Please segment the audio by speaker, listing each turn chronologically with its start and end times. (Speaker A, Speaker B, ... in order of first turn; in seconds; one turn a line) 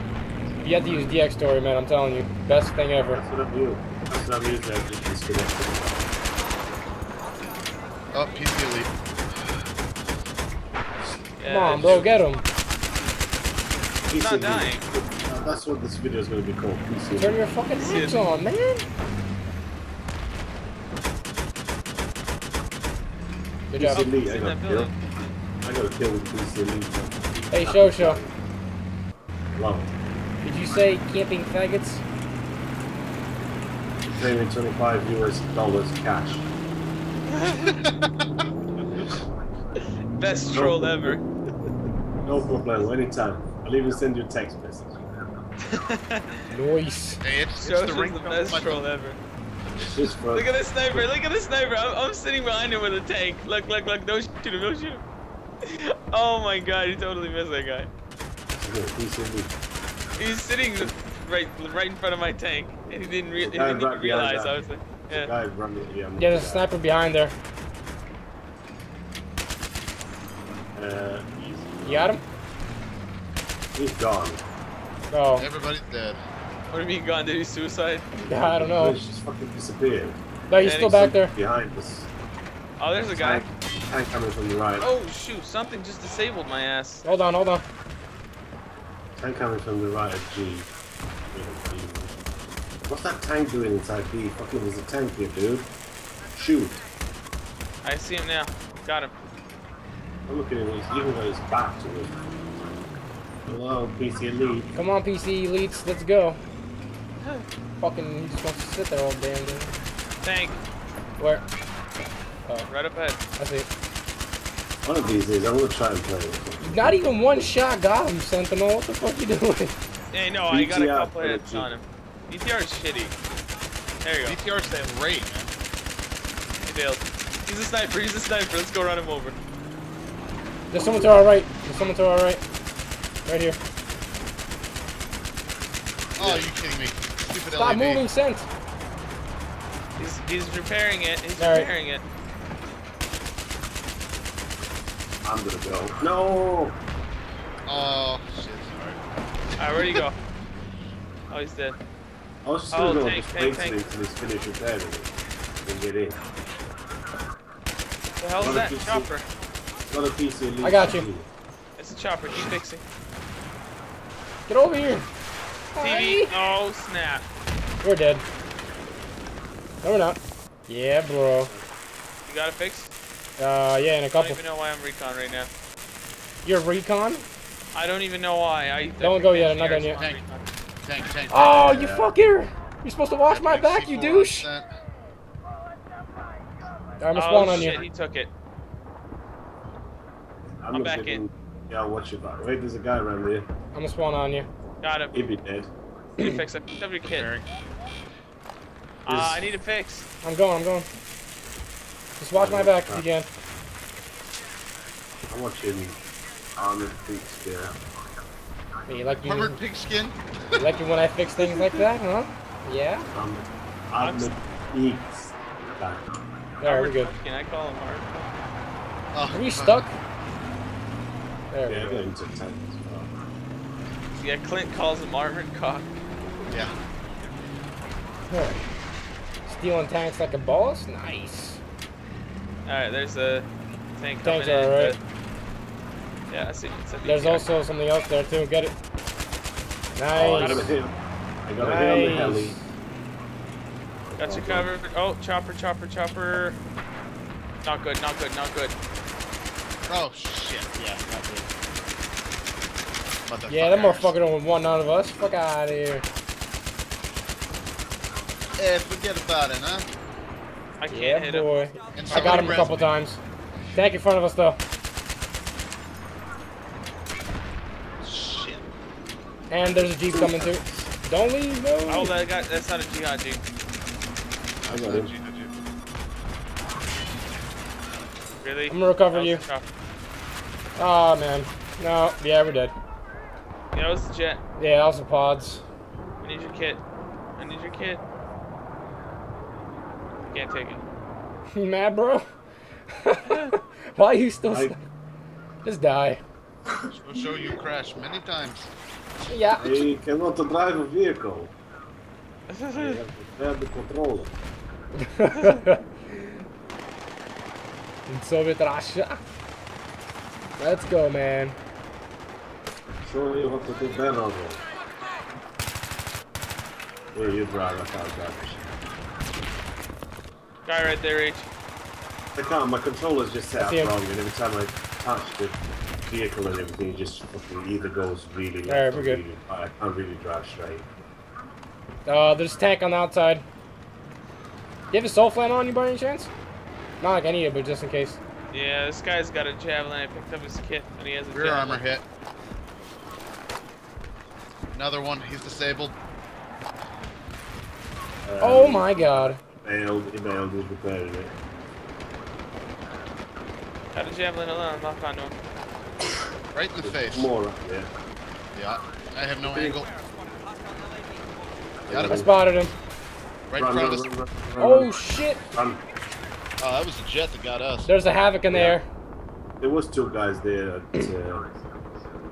Speaker A: 0.6-3.2
Speaker B: 3.1-6.1
Speaker C: 8.1-9.6
Speaker D: 11.4-12.1
Speaker A: 11.4-12.4
Speaker C: 11.7-12.0
Speaker B: 14.1-17.4
Speaker D: 14.1-14.8
Speaker A: 17.2-18.9
Speaker D: 17.8-18.2
Speaker A: 23.7-24.1
Speaker B: 23.8-24.9
Speaker D: 23.9-24.9
Speaker B: 25.6-28.4
Speaker A: 27.5-28.2
Speaker B: 29.5-29.9
Speaker A: 30.4-32.0
Speaker B: 34.1-36.5
Speaker D: 37.3-37.8
Speaker C: 37.7-38.1
Speaker B: 38.8-39.2
Speaker D: 40.2-41.2
Speaker B: 40.5-41.2
Speaker B: 42.2-45.0
Speaker D: 45.6-46.4
Speaker A: 46.5-47.2
Speaker C: 47.2-48.8
Speaker D: 47.6-49.2
Speaker B: 49.8-51.1
Speaker D: 50.3-55.0
Speaker D: 55.6-57.9
Speaker B: 58.5-59.5
Speaker D: 60.2-65.3
Speaker B: 63.4-66.7
Speaker A: 66.2-67.3
Speaker B: 70.7-72.2
Speaker A: 71.8-72.2
Speaker B: 73.7-74.4
Speaker A: 75.1-75.5
Speaker C: 75.4-76.2
Speaker D: 76.7-78.1
Speaker B: 78.2-80.2
Speaker A: 78.2-79.0
Speaker A: 80.5-81.3
Speaker D: 80.6-81.1
Speaker B: 80.8-82.1
Speaker D: 82.8-83.4
Speaker B: 83.1-84.9
Speaker D: 84.8-87.0
Speaker A: 87.0-87.6
Speaker B: 89.2-90.7
Speaker B: 91.3-92.1
Speaker B: 92.9-95.7
Speaker B: 96.3-96.8
Speaker D: 97.8-99.1
Speaker B: 100.3-102.2
Speaker B: 103.4-104.7
Speaker A: 104.7-106.4
Speaker A: 107.8-109.7
Speaker D: 110.2-110.6
Speaker A: 111.2-111.4
Speaker D: 112.7-113.2
Speaker A: 113.4-113.7
Speaker B: 114.8-117.0
Speaker A: 116.6-119.8
Speaker D: 120.1-123.1
Speaker B: 120.5-121.7
Speaker D: 124.0-124.4
Speaker C: 124.2-125.5
Speaker D: 126.6-129.3
Speaker A: 130.7-132.4
Speaker B: 130.7-131.2
Speaker A: 133.2-133.6
Speaker B: 136.2-136.5
Speaker C: 136.2-138.0
Speaker A: 137.6-138.5
Speaker D: 140.0-142.0
Speaker A: 141.4-141.7
Speaker B: 145.2-146.8
Speaker C: 147.7-149.0
Speaker D: 149.6-150.1
Speaker C: 149.8-150.0
Speaker D: 151.3-151.8
Speaker B: 152.4-156.2
Speaker D: 152.7-153.8
Speaker D: 158.2-159.2
Speaker B: 158.4-159.1
Speaker B: 159.9-161.3
Speaker A: 160.6-161.1
Speaker D: 161.8-162.8
Speaker A: 164.5-165.1
Speaker A: 165.7-166.3
Speaker D: 165.8-167.3
Speaker A: 167.8-168.2
Speaker A: 169.8-171.5
Speaker D: 172.3-172.9
Speaker A: 173.4-174.4
Speaker D: 174.1-175.5
Speaker A: 176.4-177.2
Speaker D: 177.7-180.4
Speaker A: 179.0-180.0
Speaker C: 180.8-181.7
Speaker A: 181.3-184.5
Speaker B: 181.5-182.1
Speaker C: 183.3-184.7
Speaker A: 187.0-187.8
Speaker D: 187.1-188.3
Speaker B: 190.6-193.5
Speaker D: 190.7-191.2
Speaker A: 193.7-194.5
Speaker D: 194.8-195.2
Speaker B: 195.1-195.7
Speaker D: 196.2-197.3
Speaker C: 197.0-197.5
Speaker D: 199.0-200.1
Speaker B: 199.1-199.4
Speaker A: 200.2-200.9
Speaker A: 202.2-203.3
Speaker B: 202.3-203.1
Speaker B: 205.3-206.0
Speaker B: 206.6-207.8
Speaker A: 208.9-209.6
Speaker C: 209.2-210.6
Speaker A: 210.6-213.1
Speaker B: 213.1-216.1
Speaker D: 214.0-214.3
Speaker A: 216.6-217.1
Speaker D: 216.6-218.3
Speaker C: 219.1-219.8
Speaker A: 219.3-219.9
Speaker A: 221.5-222.0
Speaker B: 221.6-223.1
Speaker D: 224.1-225.9
Speaker A: 228.3-228.6
Speaker A: 229.4-231.6
Speaker D: 232.6-235.0
Speaker A: 234.2-234.9
Speaker D: 236.3-237.4
Speaker A: 237.0-238.7
Speaker A: 239.9-240.7
Speaker B: 240.1-242.6
Speaker D: 240.4-240.7
Speaker A: 241.6-242.6
Speaker B: 244.1-244.7
Speaker D: 244.2-246.6
Speaker D: 247.6-248.8
Speaker C: 249.9-251.5
Speaker C: 253.3-254.1
Speaker A: 253.5-256.1
Speaker C: 258.6-259.9
Speaker D: 260.8-262.7
Speaker A: 260.9-263.2
Speaker C: 261.9-262.9
Speaker A: 263.7-264.6
Speaker C: 268.0-268.6
Speaker A: 269.5-272.1
Speaker B: 269.7-270.9
Speaker D: 271.9-273.4
Speaker C: 274.6-275.5
Speaker B: 274.7-275.1
Speaker D: 278.4-279.6
Speaker A: 278.7-279.4
Speaker A: 280.8-282.7
Speaker D: 283.7-284.4
Speaker A: 284.6-285.6
Speaker D: 286.2-286.8
Speaker D: 287.4-288.0
Speaker D: 290.2-290.8
Speaker A: 291.5-292.2
Speaker A: 293.0-294.8
Speaker B: 294.5-294.8
Speaker A: 295.6-296.2
Speaker C: 296.9-298.7
Speaker A: 299.3-299.9
Speaker B: 299.6-301.5
Speaker D: 302.5-303.0
Speaker B: 302.7-304.4
Speaker A: 305.0-305.8
Speaker A: 308.1-309.2
Speaker A: 310.6-311.6
Speaker B: 313.0-314.6
Speaker B: 317.1-318.7
Speaker D: 320.6-321.5
Speaker B: 322.3-330.9
Speaker A: 323.6-323.9
Speaker A: 328.7-329.2
Speaker A: 332.1-333.4
Speaker A: 334.9-336.3
Speaker A: 337.0-338.2
Speaker D: 338.5-341.8
Speaker C: 341.3-342.0
Speaker C: 344.7-345.9
Speaker B: 348.2-351.3
Speaker A: 348.4-349.4
Speaker D: 353.9-355.3
Speaker C: 356.5-357.3
Speaker B: 356.8-357.9
Speaker C: 358.5-359.9
Speaker B: 359.5-359.8
Speaker B: 361.8-362.3
Speaker C: 361.9-362.3
Speaker A: 362.0-362.7
Speaker C: 363.5-364.1
Speaker B: 363.6-365.0
Speaker A: 364.6-365.4
Speaker B: 365.5-365.8
Speaker C: 366.6-367.9
Speaker A: 367.9-368.9
Speaker B: 368.5-368.8
Speaker B: 369.6-371.5